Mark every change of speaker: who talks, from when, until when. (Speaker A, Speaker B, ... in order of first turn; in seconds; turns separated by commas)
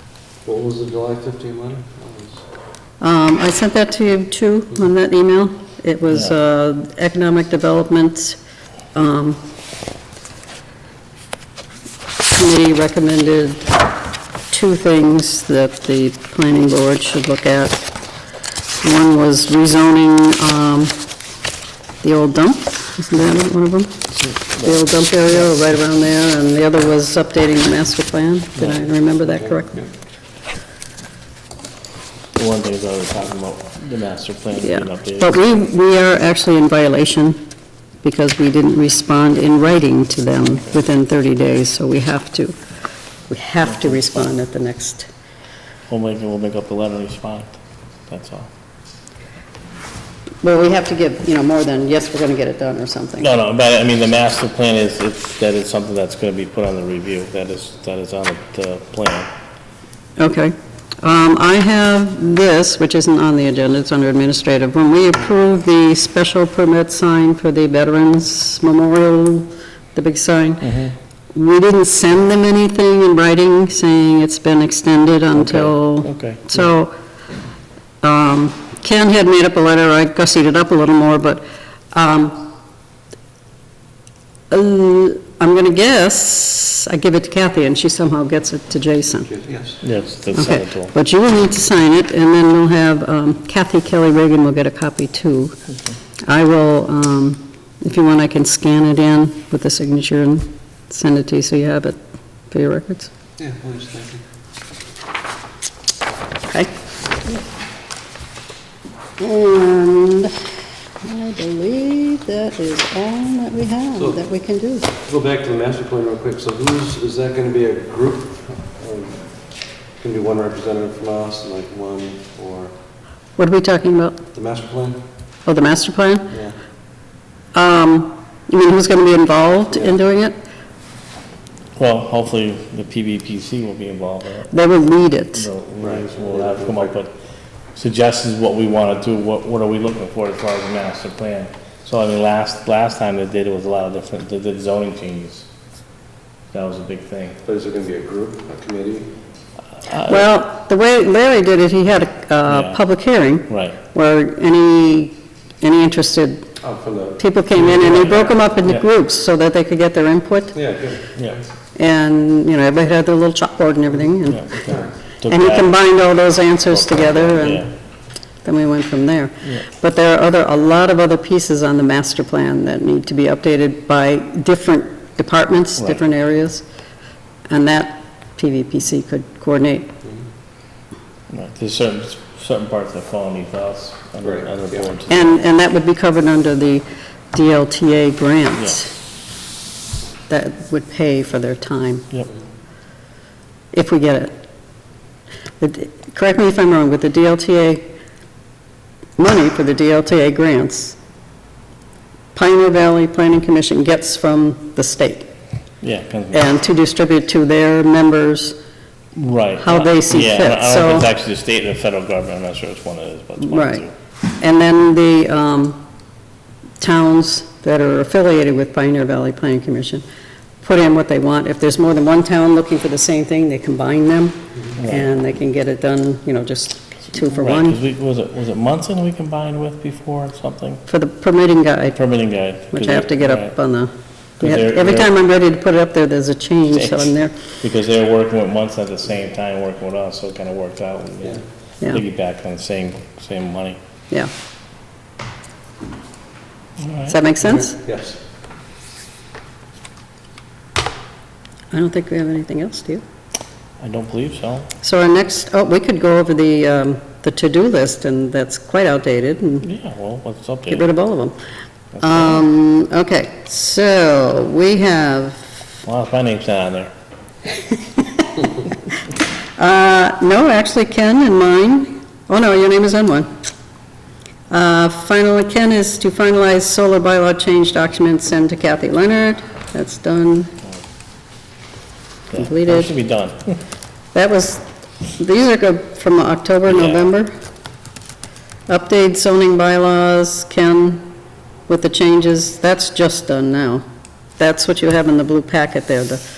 Speaker A: 0.4-2.4, Speaker B: 3.0-8.4, Speaker C: 6.1-6.3, Speaker B: 8.9-9.4, Speaker B: 12.3-13.8, Speaker B: 14.5-17.8, Speaker B: 18.8-21.0, Speaker B: 22.0-29.8, Speaker C: 24.1-24.9, Speaker A: 29.2-29.9, Speaker C: 32.4-35.4, Speaker B: 34.6-37.4, Speaker B: 38.0-42.5, Speaker B: 43.3-45.1, Speaker C: 43.6-44.3, Speaker C: 45.9-48.5, Speaker B: 50.4-53.3, Speaker C: 53.2-59.3, Speaker B: 60.2-70.6, Speaker C: 70.6-70.9, Speaker B: 71.3-76.9, Speaker C: 75.3-76.6, Speaker B: 78.0-82.5, Speaker B: 84.5-89.3, Speaker A: 89.3-89.8, Speaker C: 89.8-90.9, Speaker B: 90.3-95.5, Speaker B: 96.2-102.0, Speaker B: 102.5-103.1, Speaker A: 103.4-104.2, Speaker B: 109.2-110.5, Speaker B: 111.0-114.9, Speaker A: 115.0-122.7, Speaker B: 123.4-124.2, Speaker A: 124.3-125.0, Speaker B: 125.4-126.3, Speaker A: 126.3-126.6, Speaker B: 127.5-130.3, Speaker C: 131.8-134.5, Speaker B: 134.5-135.4, Speaker C: 135.3-137.1, Speaker A: 135.8-136.9, Speaker C: 137.7-145.5, Speaker C: 146.5-147.4, Speaker A: 147.4-149.1, Speaker C: 149.8-150.3, Speaker B: 150.1-156.5, Speaker C: 152.5-152.8, Speaker C: 153.5-153.8, Speaker A: 156.6-158.3, Speaker B: 157.2-160.6, Speaker C: 157.6-158.8, Speaker A: 160.5-161.5, Speaker B: 161.8-167.7, Speaker C: 164.3-165.8, Speaker C: 166.7-167.7, Speaker B: 168.4-176.6, Speaker B: 177.5-179.9, Speaker C: 181.3-185.4, Speaker A: 184.2-184.9, Speaker B: 185.1-188.9, Speaker C: 188.6-188.8, Speaker B: 190.3-192.1, Speaker B: 193.7-194.4, Speaker B: 195.6-197.8, Speaker B: 199.2-200.9, Speaker B: 202.3-205.3, Speaker C: 205.8-206.5, Speaker B: 206.3-208.6, Speaker C: 209.1-213.9, Speaker B: 209.6-211.1, Speaker B: 213.4-213.8, Speaker B: 214.4-215.8, Speaker B: 216.8-220.0, Speaker B: 220.6-227.8, Speaker C: 224.8-225.1, Speaker C: 227.1-230.8, Speaker B: 230.9-232.0, Speaker C: 231.9-233.6, Speaker B: 232.7-237.3, Speaker C: 234.4-235.1, Speaker C: 236.7-243.8, Speaker C: 246.8-247.2, Speaker B: 247.1-247.8, Speaker A: 247.4-248.2, Speaker B: 251.7-253.0, Speaker C: 253.8-254.7, Speaker B: 254.8-259.6, Speaker C: 259.6-260.9, Speaker B: 260.7-261.4, Speaker C: 262.0-262.4, Speaker B: 262.0-265.5, Speaker C: 265.8-266.9, Speaker B: 267.7-268.3, Speaker B: 269.6-273.3, Speaker B: 274.5-280.5, Speaker C: 282.3-283.6, Speaker B: 282.3-282.9, Speaker B: 284.1-287.3, Speaker C: 286.7-287.1, Speaker B: 288.7-291.1, Speaker B: 291.7-293.8, Speaker B: 294.4-296.2